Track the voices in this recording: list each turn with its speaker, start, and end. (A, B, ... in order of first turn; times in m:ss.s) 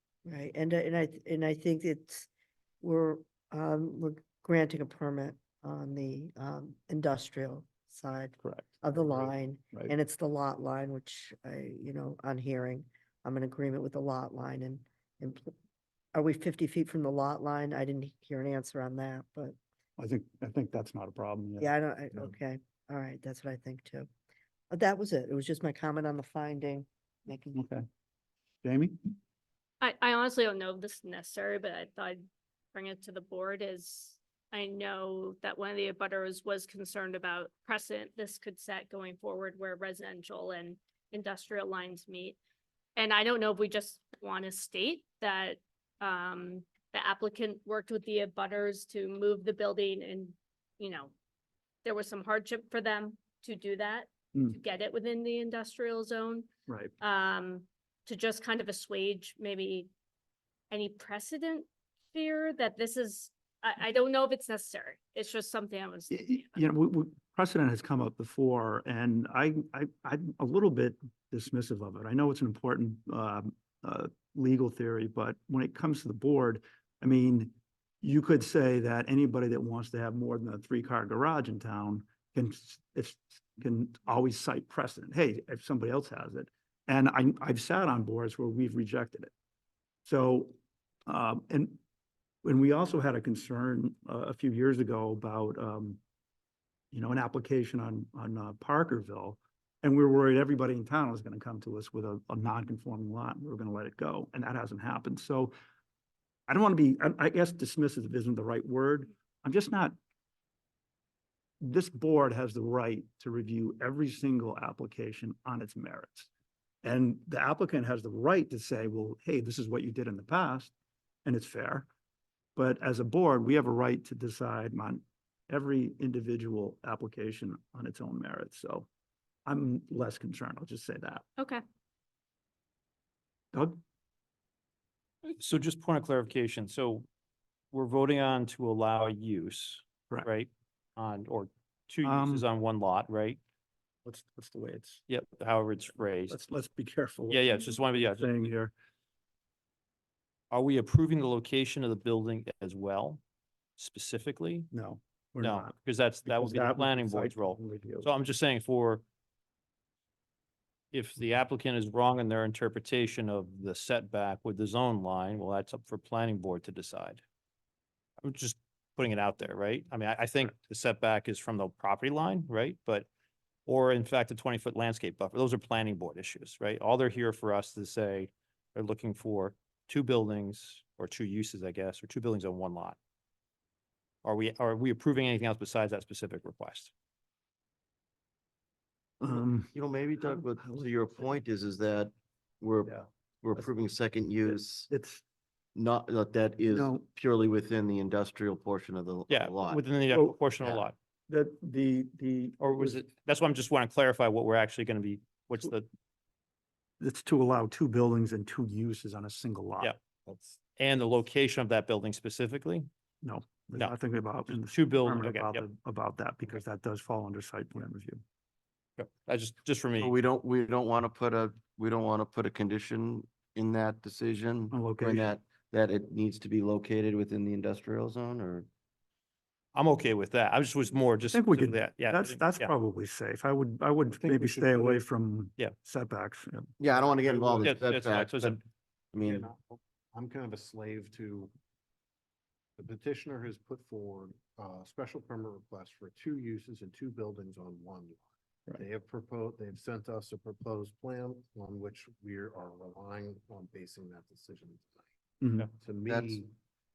0:00.2-0:02.3 A
0:02.8-0:15.5 A
0:08.4-0:09.9 B
0:16.1-0:19.6 A
0:20.0-0:22.3 B
0:21.6-0:24.1 A
0:24.7-0:27.7 A
0:27.5-0:27.8 B
0:28.6-0:29.1 B
0:29.8-0:32.2 C
0:32.7-0:42.4 C
0:43.0-0:51.1 C
0:51.8-0:56.5 C
0:56.7-0:56.9 B
0:57.0-0:59.9 C
1:00.7-1:06.2 C
1:06.1-1:29.3 B
1:30.0-1:30.5 B
1:31.0-1:31.8 B
1:32.4-1:36.0 B
1:36.9-1:45.5 B
1:46.5-1:50.0 B
1:51.6-1:56.3 B
1:56.8-2:00.7 B
2:01.2-2:01.9 B
2:02.6-2:08.9 B
2:09.4-2:11.2 B
2:13.5-2:13.8 B
2:15.2-2:17.0 D
2:17.7-2:23.4 D
2:22.0-2:22.4 B
2:24.0-2:25.0 B
2:25.1-2:26.4 D
2:26.3-2:28.7 B
2:27.3-2:28.5 D
2:30.5-2:33.2 D
2:33.8-2:34.7 D
2:34.7-2:38.1 B
2:35.4-2:39.0 D
2:40.9-2:47.2 D
2:48.2-2:53.1 D
2:53.6-3:03.0 D
3:04.2-3:06.9 D
3:09.2-3:10.9 B
3:09.3-3:14.9 E
3:14.5-3:15.2 B
3:15.7-3:19.8 E
3:16.7-3:17.0 B
3:19.3-3:20.9 D
3:20.1-3:20.8 B
3:21.3-3:23.0 B
3:22.6-3:25.9 D
3:27.0-3:30.0 B
3:30.8-3:32.9 D
3:33.2-3:38.2 B
3:34.5-3:35.6 D
3:39.0-3:40.1 D
3:40.0-3:48.7 E
3:44.7-3:45.3 B
3:49.7-3:52.7 D
3:51.3-3:56.7 B
3:54.2-3:55.0 F
3:56.8-3:58.6 E
3:57.3-3:58.6 D
3:57.5-3:57.9 F
3:59.1-3:59.5 E
3:59.2-4:01.5 F
4:02.8-4:15.1 F
4:15.4-4:15.7 B
4:15.8-4:16.5 F
4:16.1-4:16.4 E